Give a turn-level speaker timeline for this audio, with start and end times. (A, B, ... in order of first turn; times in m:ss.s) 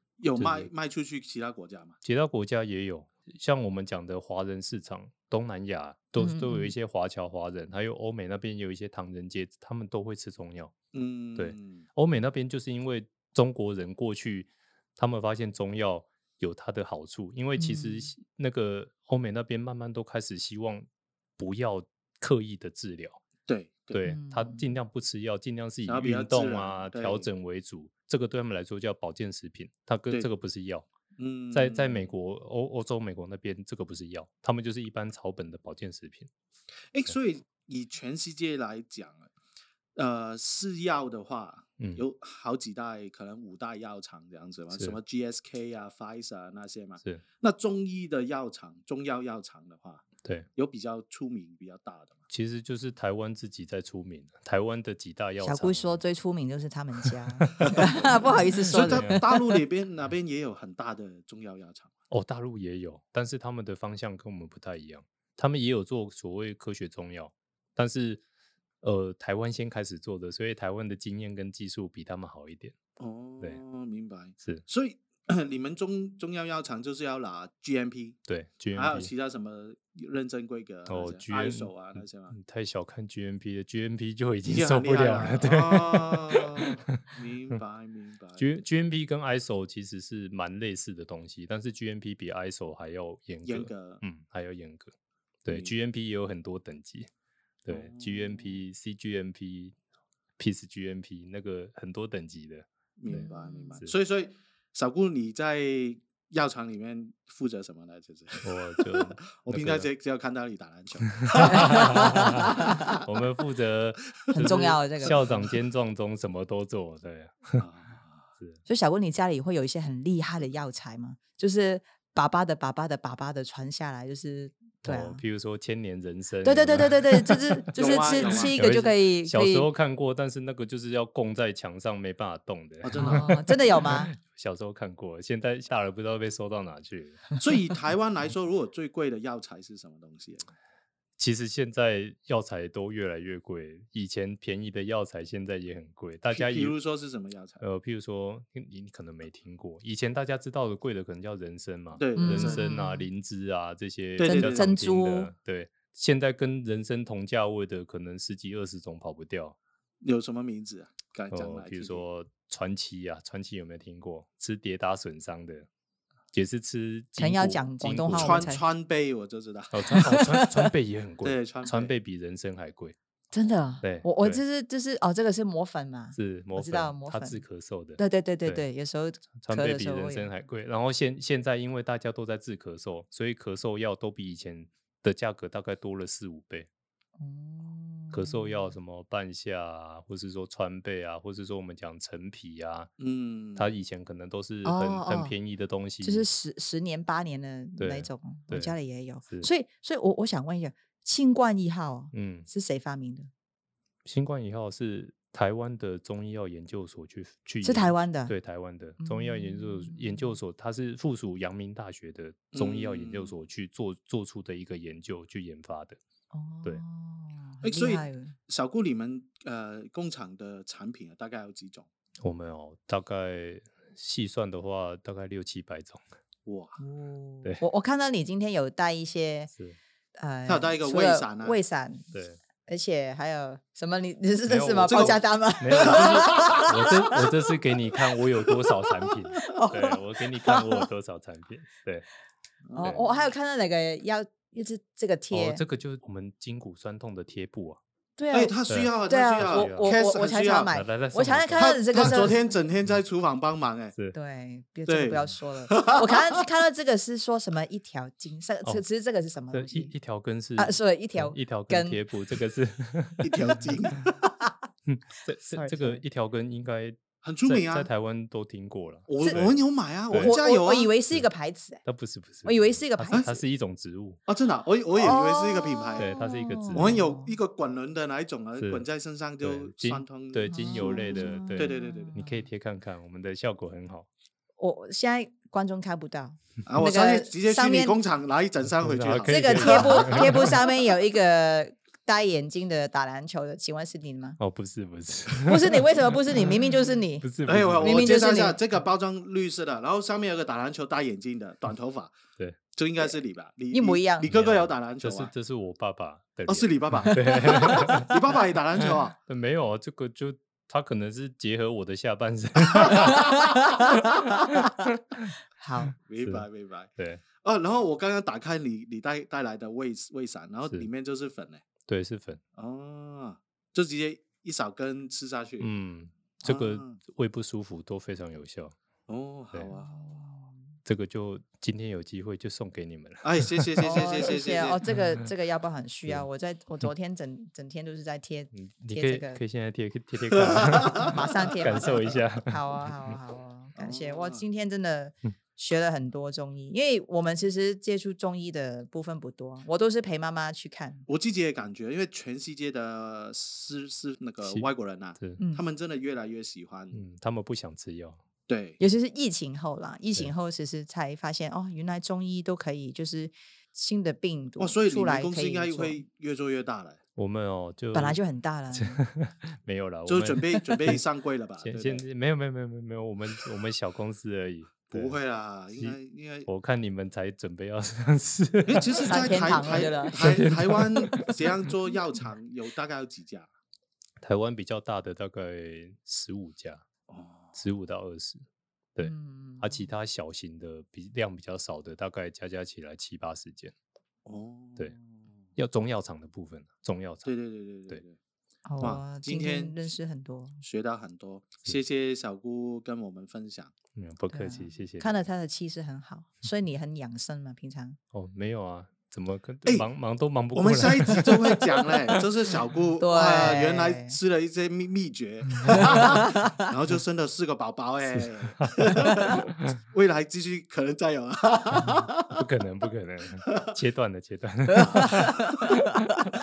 0:00.2-0:02.0 A
0:00.4-0:00.7 B
0:02.0-0:10.8 B
0:06.2-0:06.7 C
0:10.9-0:11.8 A
0:11.4-0:20.8 B
0:17.6-0:18.1 C
0:21.4-0:23.2 B
0:23.4-0:24.0 A
0:23.9-0:30.9 B
0:24.0-0:24.8 C
0:25.8-0:27.3 A
0:31.2-0:32.1 A
0:31.5-0:36.3 B
0:36.9-0:39.3 A
0:40.0-0:52.2 A
0:52.3-0:56.0 B
0:55.4-0:59.5 C
0:57.4-0:57.8 B
0:58.7-0:59.2 B
0:58.7-1:01.9 A
1:02.1-1:08.2 B
1:08.8-1:12.8 B
1:13.0-1:18.2 A
1:18.3-1:19.1 B
1:18.7-1:22.3 A
1:20.9-1:26.7 B
1:24.4-1:28.5 A
1:28.4-1:34.9 B
1:33.4-1:34.0 A
1:35.4-1:37.1 B
1:37.6-1:39.8 B
1:37.7-1:38.6 A
1:40.4-1:43.3 B
1:43.0-1:53.0 A
1:43.1-1:43.8 C
1:48.4-1:49.9 B
1:51.2-1:57.6 B
1:51.4-1:52.9 C
1:54.2-1:55.6 A
1:54.3-1:55.2 C
1:57.6-1:58.3 A
1:58.7-2:05.2 C
2:04.8-2:17.2 B
2:06.4-2:09.7 C
2:07.7-2:08.6 A
2:12.8-2:13.4 A
2:13.0-2:14.1 C
2:17.4-2:20.5 A
2:21.2-2:26.7 B
2:26.3-2:27.6 A
2:27.6-2:39.5 B
2:32.0-2:32.6 A
2:32.2-2:33.1 C
2:34.2-2:34.7 A
2:34.2-2:35.3 C
2:40.0-2:42.0 A
2:41.3-2:45.7 B
2:46.3-2:48.5 B
2:47.2-2:48.6 C
2:48.1-2:49.8 A
2:49.7-2:53.0 B
2:49.9-2:50.7 C
2:51.2-2:51.9 A
2:53.3-2:57.4 C
2:53.8-2:54.4 B
2:56.1-2:58.6 B
2:58.0-3:00.3 C
2:59.4-3:06.7 B
3:07.2-3:08.7 C
3:08.1-3:12.9 B
3:13.0-3:13.7 A
3:13.6-3:16.3 B
3:14.6-3:15.3 C
3:16.0-3:23.3 C
3:17.8-3:18.8 B
3:22.1-3:22.5 B
3:24.0-3:36.0 B
3:27.6-3:28.3 C
3:29.0-3:30.4 C
3:32.5-3:33.3 A
3:36.3-3:38.4 C
3:37.6-3:41.9 A
3:42.2-3:46.0 B
3:46.4-3:46.8 A
3:46.8-3:49.5 C
3:49.5-3:49.8 B
3:50.2-3:52.1 C
3:50.5-3:51.6 A
3:52.1-3:52.4 B
3:52.6-3:57.2 C
3:54.5-4:02.0 B
3:54.9-3:56.8 A
3:59.5-4:00.8 C
4:02.7-4:03.2 A
4:02.7-4:05.6 C
4:02.8-4:03.0 B
4:05.3-4:07.8 B
4:08.2-4:08.5 C
4:08.3-4:10.7 A
4:08.7-4:09.9 B
4:09.1-4:12.5 C
4:10.7-4:12.3 B
4:11.6-4:13.9 A
4:14.1-4:19.9 C
4:14.9-4:16.4 A
4:19.5-4:23.7 B
4:20.6-4:22.0 C
4:23.2-4:24.1 A
4:24.8-4:29.6 B
4:25.4-4:26.0 C
4:27.2-4:27.9 A
4:29.1-4:30.9 A
4:30.1-4:30.3 B
4:30.2-4:31.8 C
4:31.8-4:34.2 B
4:32.4-4:33.3 C
4:34.3-4:36.1 A
4:35.0-4:37.4 C
4:36.0-4:37.0 B
4:36.7-4:42.1 A
4:38.6-4:38.8 B
4:39.4-4:44.1 B
4:40.5-4:42.4 C
4:44.6-4:48.0 C
4:46.6-4:50.6 A
4:48.8-4:50.6 B
4:49.2-4:54.4 C
4:54.4-4:56.6 B
4:55.4-4:57.3 C
4:57.2-4:58.2 B
4:57.4-5:02.1 A
4:57.8-4:58.6 C
5:02.7-5:05.3 A
5:03.7-5:04.3 C
5:04.2-5:08.2 B
5:06.5-5:09.2 A
5:07.0-5:08.1 C
5:08.8-5:15.3 B
5:12.8-5:13.1 A
5:13.0-5:14.7 C
5:15.6-5:15.9 C
5:16.1-5:21.6 A
5:17.0-5:17.2 B
5:21.8-5:22.4 B
5:22.5-5:25.7 A
5:25.6-5:28.8 B
5:26.4-5:27.0 A
5:29.1-5:30.0 A
5:29.7-5:30.7 C
5:30.8-5:34.0 B
5:33.2-5:34.8 A
5:33.8-5:39.4 C
5:38.5-5:42.9 B
5:40.4-5:41.1 A
5:41.0-5:51.1 C
5:43.8-5:44.4 A
5:51.1-5:57.0 A
5:54.4-5:55.4 B
5:55.4-5:55.6 C
5:56.9-5:58.2 B
5:58.5-5:58.8 A
5:58.8-6:06.0 C
6:04.6-6:07.0 A
6:07.2-6:08.2 B
6:07.9-6:09.0 C
6:08.7-6:11.0 B
6:10.0-6:12.0 A
6:11.6-6:15.2 B
6:14.8-6:16.5 A
6:15.7-6:21.5 B
6:18.7-6:23.5 A
6:19.0-6:20.4 C
6:24.2-6:26.8 B
6:27.1-6:27.6 A
6:27.5-6:28.4 B
6:29.0-6:33.7 B
6:29.0-6:29.9 C
6:34.2-6:35.2 A
6:35.6-6:37.3 B
6:37.2-6:38.1 A
6:38.6-6:40.6 C
6:38.8-6:39.9 A
6:40.6-6:43.7 A
6:43.9-6:45.1 B
6:44.3-6:48.0 C
6:48.1-6:52.2 B
6:50.5-7:02.4 A
6:53.0-6:54.2 C
6:55.6-6:56.0 B
6:55.8-6:56.7 C
6:58.1-6:59.8 B
7:01.8-7:06.3 B
7:03.4-7:03.7 A
7:04.7-7:05.4 C
7:04.8-7:05.8 A